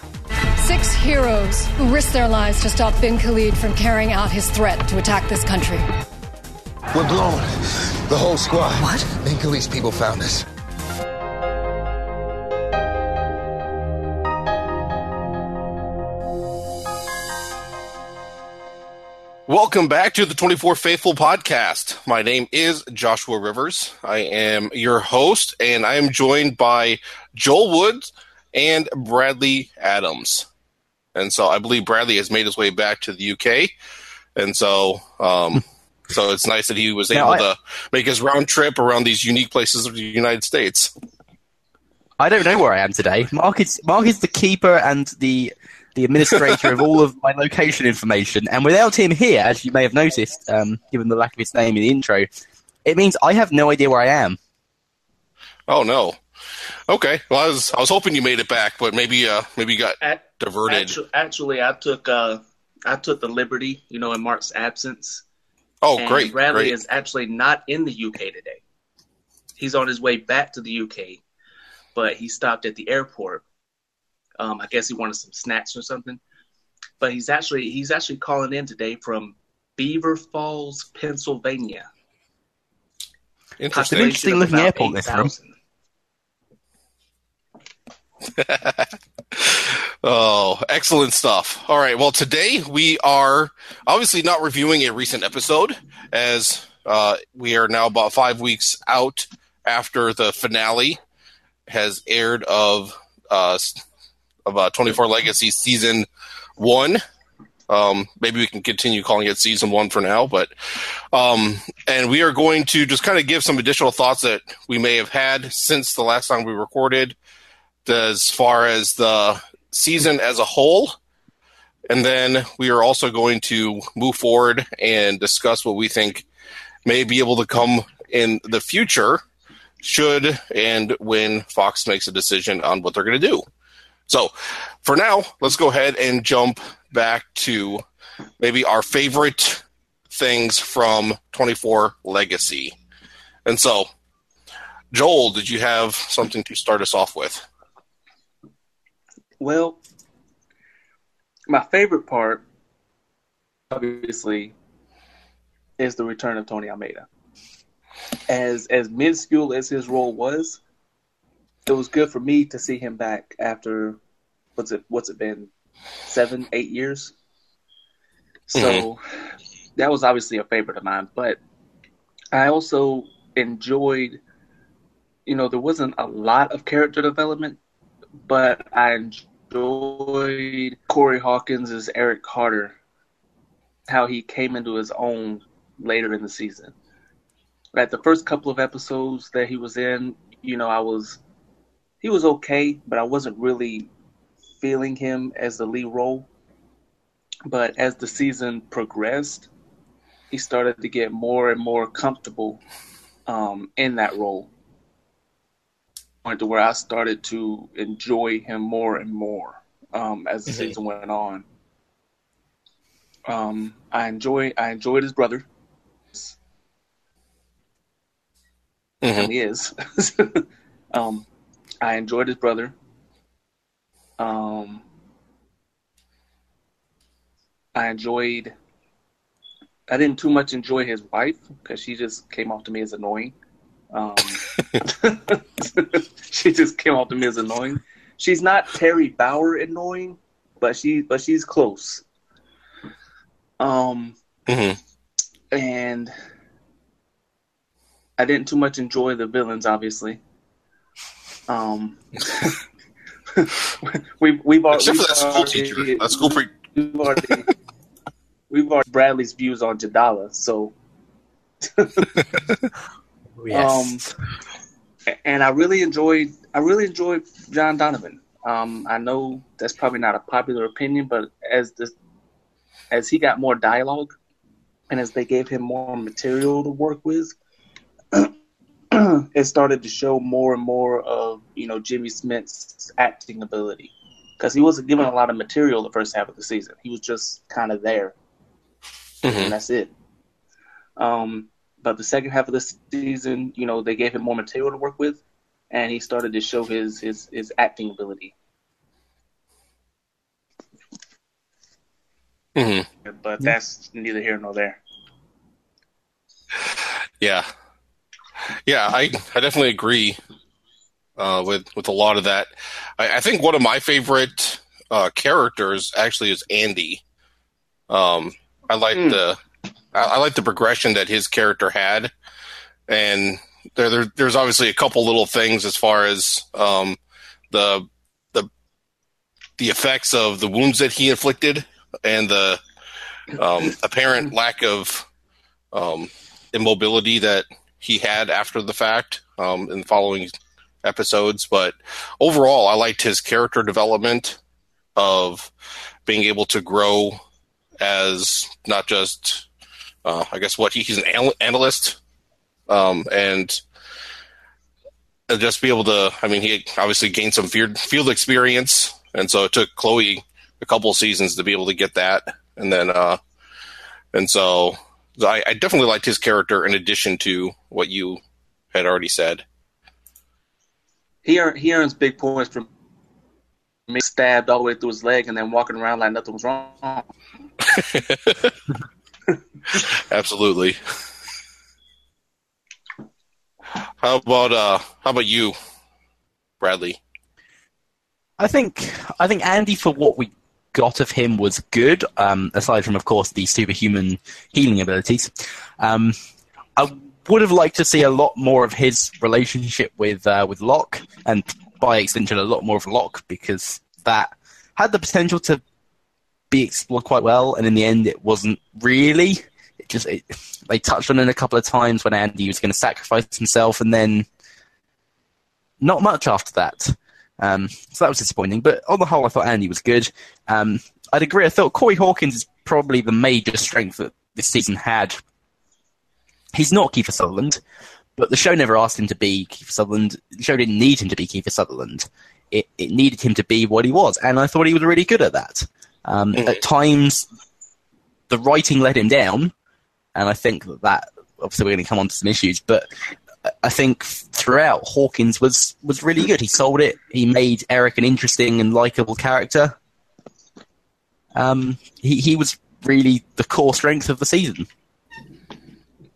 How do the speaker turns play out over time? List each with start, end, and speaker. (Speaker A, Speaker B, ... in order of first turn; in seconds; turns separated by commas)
Speaker A: 0.6-5.9, Speaker B: 6.9-10.5, Speaker C: 19.5-30.5, Speaker C: 31.1-33.7, Speaker C: 34.4-40.9, Speaker D: 37.1-37.5, Speaker D: 42.2-52.3, Speaker D: 52.9-54.4, Speaker C: 55.7-56.2, Speaker C: 56.9-61.0, Speaker E: 60.0-65.2, Speaker C: 65.8-66.7, Speaker E: 66.0-68.6, Speaker E: 69.6-71.2, Speaker E: 72.0-73.5, Speaker E: 74.4-76.2, Speaker E: 77.0-81.9, Speaker C: 83.6-84.2, Speaker E: 83.7-85.5, Speaker D: 84.0-85.3, Speaker C: 88.3-101.0, Speaker C: 101.7-103.8, Speaker C: 104.5-106.1, Speaker C: 106.6-107.0, Speaker C: 107.7-110.5, Speaker C: 111.1-117.2, Speaker C: 117.9-121.0, Speaker C: 121.9-126.3, Speaker C: 126.9-129.2, Speaker C: 129.8-133.4, Speaker C: 134.1-137.8, Speaker C: 138.4-142.8, Speaker C: 143.5-143.9, Speaker C: 144.9-147.4, Speaker E: 149.4-149.8, Speaker E: 151.5-152.4, Speaker E: 153.7-154.6, Speaker E: 155.8-157.1, Speaker E: 158.3-160.6, Speaker E: 161.7-164.0, Speaker E: 164.6-165.5, Speaker E: 166.1-167.1, Speaker E: 168.5-169.0, Speaker C: 168.6-168.8, Speaker E: 169.8-171.4, Speaker E: 172.3-174.2, Speaker E: 175.3-177.6, Speaker E: 178.3-182.8, Speaker E: 183.9-186.7, Speaker E: 187.7-191.2, Speaker E: 192.0-193.9, Speaker E: 194.6-196.3, Speaker E: 197.5-199.5, Speaker E: 200.3-202.6, Speaker E: 203.3-204.5, Speaker E: 206.2-211.5, Speaker C: 210.5-210.8, Speaker E: 213.3-215.5, Speaker C: 219.0-219.3, Speaker E: 219.1-221.3, Speaker E: 221.8-222.8, Speaker E: 224.2-224.8, Speaker E: 227.8-228.5, Speaker E: 229.9-233.4, Speaker E: 233.9-242.0, Speaker E: 243.6-244.2, Speaker C: 244.5-244.8, Speaker E: 245.5-246.1, Speaker E: 248.2-250.2, Speaker E: 251.5-252.6, Speaker E: 253.3-257.5, Speaker C: 254.7-256.5, Speaker E: 258.5-260.7, Speaker E: 261.6-262.1, Speaker D: 263.4-264.1, Speaker E: 263.5-264.0, Speaker E: 265.2-271.9, Speaker E: 272.9-274.2, Speaker E: 274.9-277.4, Speaker E: 278.9-288.2, Speaker C: 289.2-289.5, Speaker E: 289.2-289.9, Speaker E: 291.0-298.4, Speaker C: 302.6-302.9, Speaker E: 303.1-304.8, Speaker C: 306.7-307.5, Speaker C: 308.7-310.2, Speaker C: 311.2-317.0, Speaker C: 317.9-319.4, Speaker E: 318.9-319.2, Speaker C: 319.9-322.1, Speaker C: 322.9-327.0, Speaker C: 327.5-328.5, Speaker C: 329.6-332.6, Speaker C: 333.3-335.1, Speaker C: 335.7-340.3, Speaker C: 340.8-344.4, Speaker C: 345.0-345.5, Speaker C: 346.1-347.2, Speaker C: 347.8-349.5, Speaker C: 350.1-352.0, Speaker C: 352.7-353.6, Speaker C: 355.3-363.2, Speaker C: 364.1-368.2, Speaker C: 368.7-369.4, Speaker E: 371.2-372.7, Speaker E: 373.9-377.1, Speaker C: 377.7-378.6, Speaker C: 379.8-380.8, Speaker C: 384.0-385.6, Speaker C: 386.6-387.0, Speaker D: 388.4-396.2, Speaker D: 396.8-405.6, Speaker D: 406.5-414.3, Speaker D: 415.8-425.2, Speaker D: 426.5-427.6, Speaker D: 428.2-437.3, Speaker D: 438.3-439.5, Speaker D: 440.1-442.9, Speaker D: 443.4-449.8, Speaker D: 451.3-454.7